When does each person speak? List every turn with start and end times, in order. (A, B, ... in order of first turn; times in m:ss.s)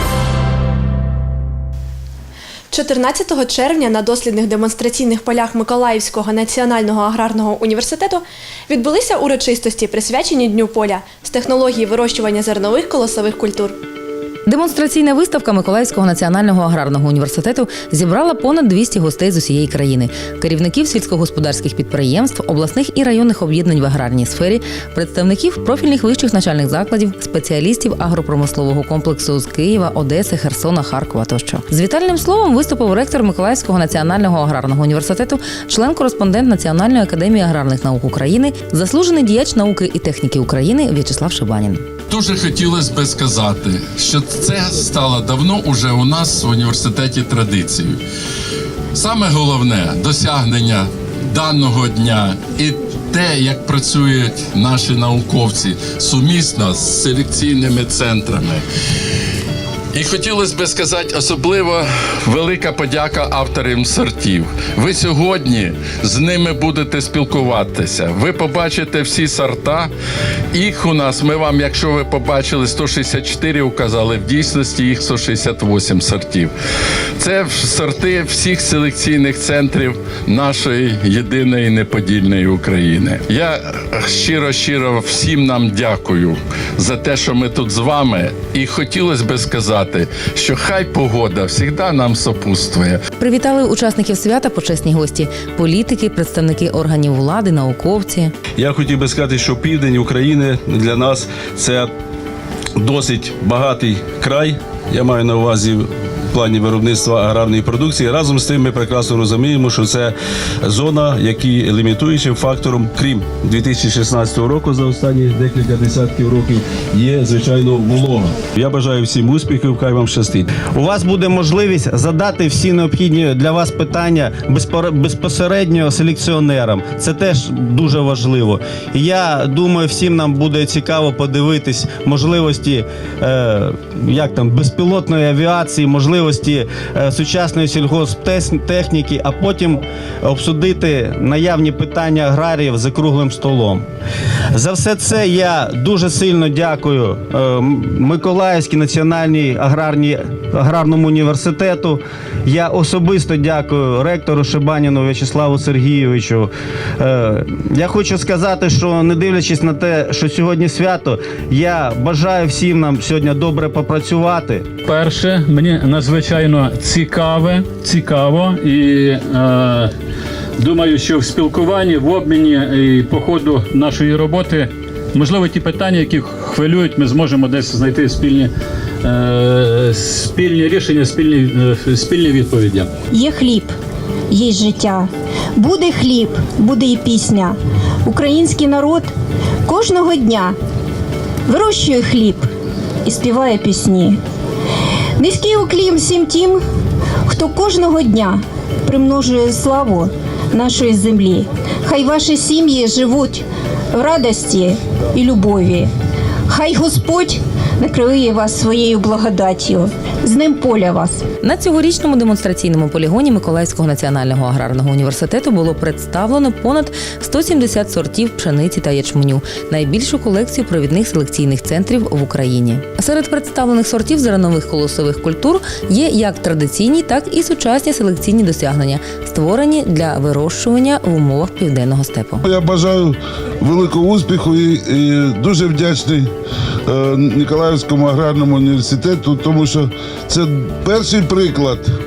0:02.7-0:13.8 A
0:14.4-0:41.8 B
0:42.1-0:48.0 C
0:48.9-0:58.6 C
0:59.9-1:09.9 C
1:10.5-1:16.5 C
1:17.2-1:33.0 C
1:33.2-1:38.3 B
1:38.6-1:41.9 D
1:42.8-2:00.5 D
2:00.6-2:23.8 E
2:24.5-2:44.7 E
2:44.9-2:49.9 F
2:50.6-2:58.5 F
2:59.0-3:02.9 F
3:03.1-3:03.7 G
3:04.3-3:09.1 G
3:09.7-3:10.5 G
3:11.5-3:12.4 G
3:13.0-3:14.2 G
3:15.2-3:16.6 G
3:17.3-3:25.9 G
3:26.5-3:31.2 G
3:31.4-3:52.4 B
3:52.4-3:56.3 H
3:56.9-4:01.9 H